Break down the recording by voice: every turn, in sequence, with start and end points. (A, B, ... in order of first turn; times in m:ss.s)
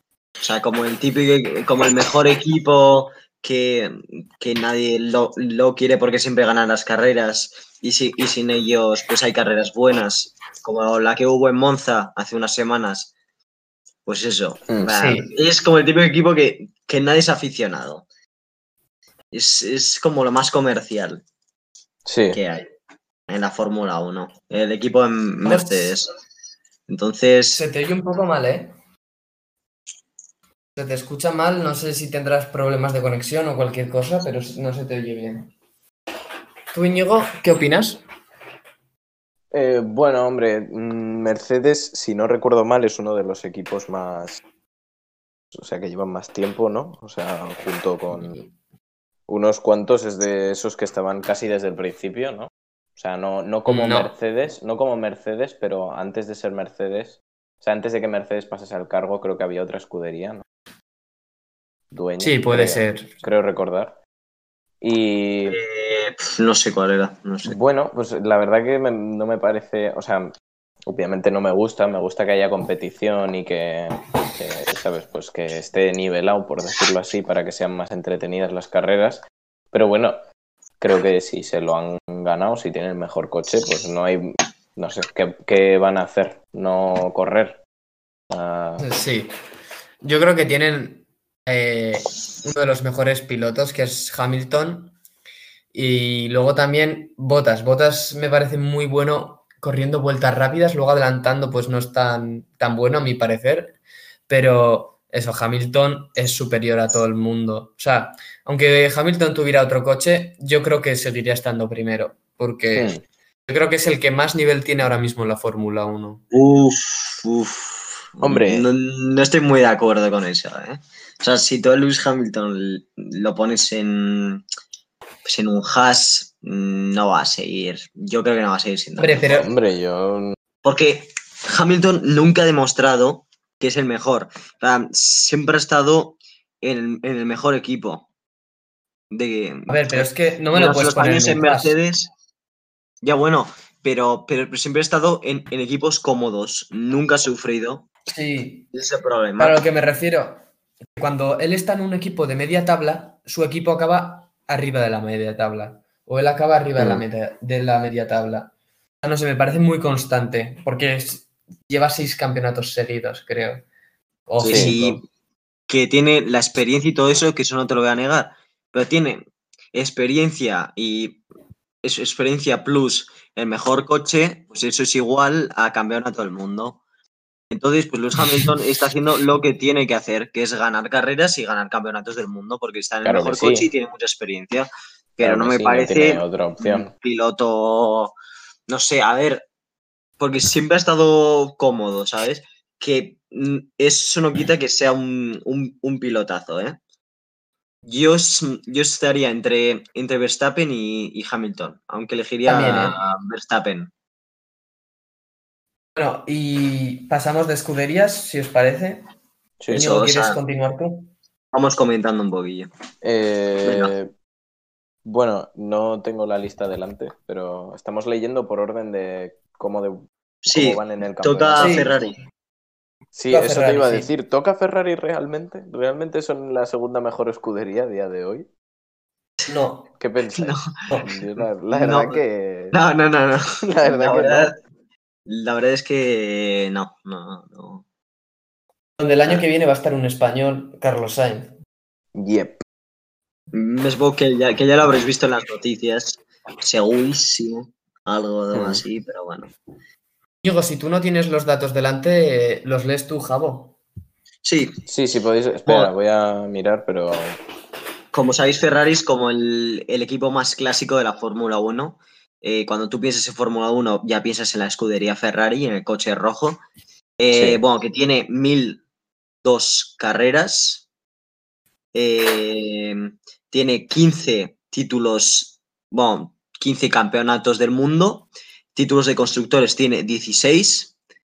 0:00.4-0:13.1 A
0:14.1-0:18.1 A
0:14.7-0:14.9 B
0:14.9-0:15.3 C
0:19.3-0:21.2 A
0:22.1-0:22.4 B
0:22.3-0:22.7 A
0:23.3-0:26.1 A
0:25.4-0:25.9 C
0:26.9-0:27.6 A
0:27.5-0:28.8 C
0:30.8-0:35.5 C
0:36.7-0:38.0 C
0:39.5-0:44.4 B
0:45.5-0:48.4 B
0:49.3-1:00.4 B
0:53.7-0:54.1 C
1:01.9-1:04.0 B
1:02.2-1:03.2 C
1:04.8-1:05.6 B
1:05.5-1:07.6 A
1:07.4-1:10.3 B
1:10.8-1:20.2 B
1:20.8-1:27.6 B
1:28.3-1:28.9 B
1:28.8-1:29.3 C
1:30.0-1:35.0 C
1:35.7-1:52.9 C
1:52.8-1:53.0 B
1:53.5-1:56.2 C
1:56.3-2:04.4 A
1:58.2-1:58.7 B
2:05.2-2:09.4 A
2:09.0-2:09.5 C
2:09.2-2:10.4 B
2:10.6-2:18.1 A
2:19.1-2:22.1 A
2:19.7-2:21.8 C
2:23.0-2:27.9 A
2:28.1-2:28.7 C
2:28.7-2:29.6 A
2:29.4-2:30.5 C
2:31.0-2:43.6 C
2:36.8-2:37.0 B
2:44.3-2:45.0 C
2:44.4-2:45.0 A
2:44.4-2:44.8 B
2:45.7-2:51.2 A
2:51.8-2:56.8 A
2:57.5-3:08.2 A
3:03.0-3:03.7 B
3:05.2-3:06.9 B
3:08.7-3:09.5 A
3:10.2-3:16.8 A
3:17.9-3:23.9 A
3:22.5-3:23.0 C
3:26.0-3:29.0 C
3:29.6-3:29.9 B
3:29.7-3:30.4 A
3:29.7-3:31.1 C
3:31.5-3:32.7 A
3:33.0-3:34.1 B
3:33.6-3:33.9 A
3:35.0-3:41.9 B
3:40.4-3:42.2 A
3:41.6-3:41.9 C
3:43.1-3:48.5 B
3:43.3-3:44.1 C
3:49.5-3:49.9 C
3:50.0-3:52.8 B
3:50.4-3:50.7 A
3:51.7-3:54.5 A
3:53.7-3:54.5 B
3:55.3-3:57.8 A
3:59.0-4:01.5 C
4:02.2-4:02.6 B
4:03.5-4:09.5 A
4:08.5-4:08.8 B
4:10.4-4:13.8 C
4:14.4-4:14.8 A
4:14.9-4:17.4 B
4:15.7-4:15.9 A
4:18.1-4:26.6 A
4:27.2-4:28.8 A
4:27.3-4:27.6 B
4:29.4-4:30.9 A
4:31.9-4:41.0 A